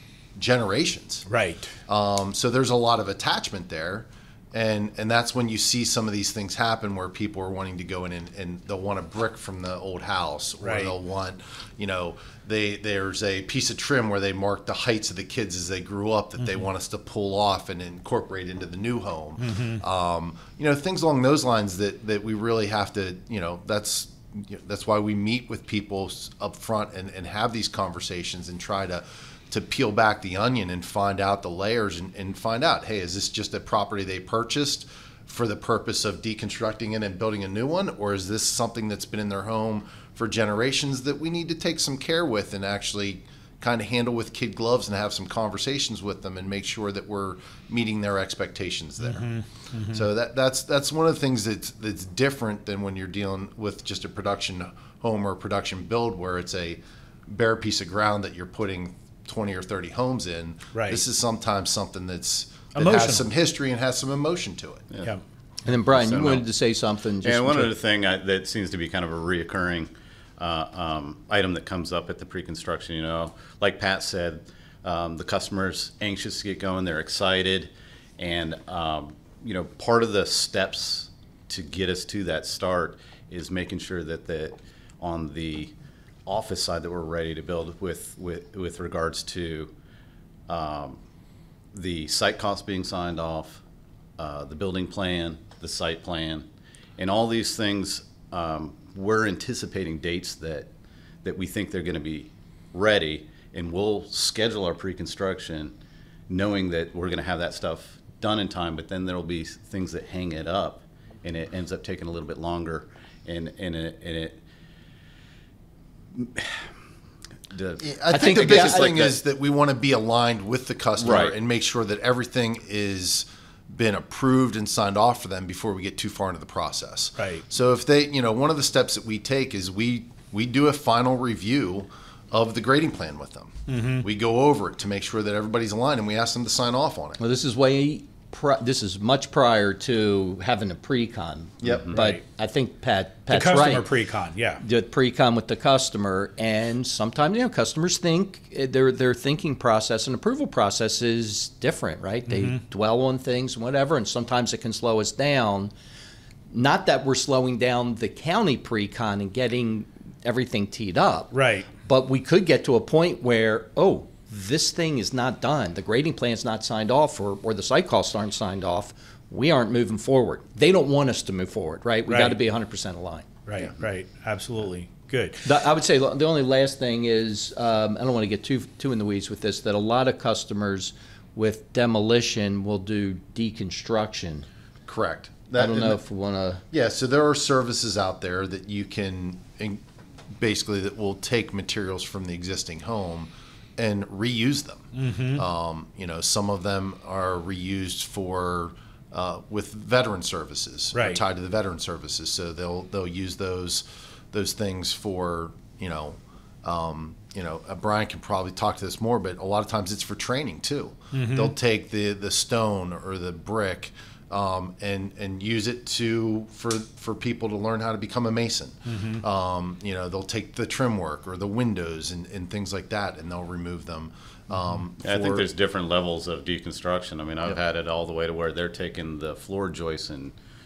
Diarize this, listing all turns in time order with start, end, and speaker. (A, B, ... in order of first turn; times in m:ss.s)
0:00.4-0:01.3 A
0:01.3-0:01.7 B
0:01.9-0:49.3 A
0:10.6-0:10.9 B
0:19.4-0:19.8 B
0:49.0-0:50.0 B
0:49.9-1:04.9 A
1:00.7-1:01.0 B
1:02.8-1:03.3 B
1:05.6-1:07.7 C
1:05.9-1:06.5 D
1:07.2-1:25.7 D
1:26.3-1:29.7 D
1:30.5-1:31.0 D
1:31.7-1:33.6 D
1:34.2-1:40.7 D
1:41.2-1:45.7 D
1:46.3-1:54.4 D
1:56.2-1:56.7 D
1:57.5-1:59.1 D
1:57.8-2:17.2 A
1:58.1-1:59.1 C
2:01.0-2:01.4 D
2:13.7-2:14.1 B
2:17.2-2:23.9 C
2:21.6-2:21.9 A
2:21.9-2:22.2 B
2:23.3-2:24.6 B
2:24.6-2:35.7 C
2:32.3-2:32.6 B
2:36.5-2:53.3 C
2:41.3-2:41.7 B
2:52.1-2:52.4 B
2:53.4-2:55.4 B
2:55.4-3:04.4 C
3:04.9-3:06.0 A
3:05.6-3:06.6 C
3:06.7-3:45.5 A
3:14.9-3:15.4 B
3:20.9-3:21.2 B
3:31.1-3:31.5 B
3:38.9-3:39.2 B
3:45.0-3:50.3 D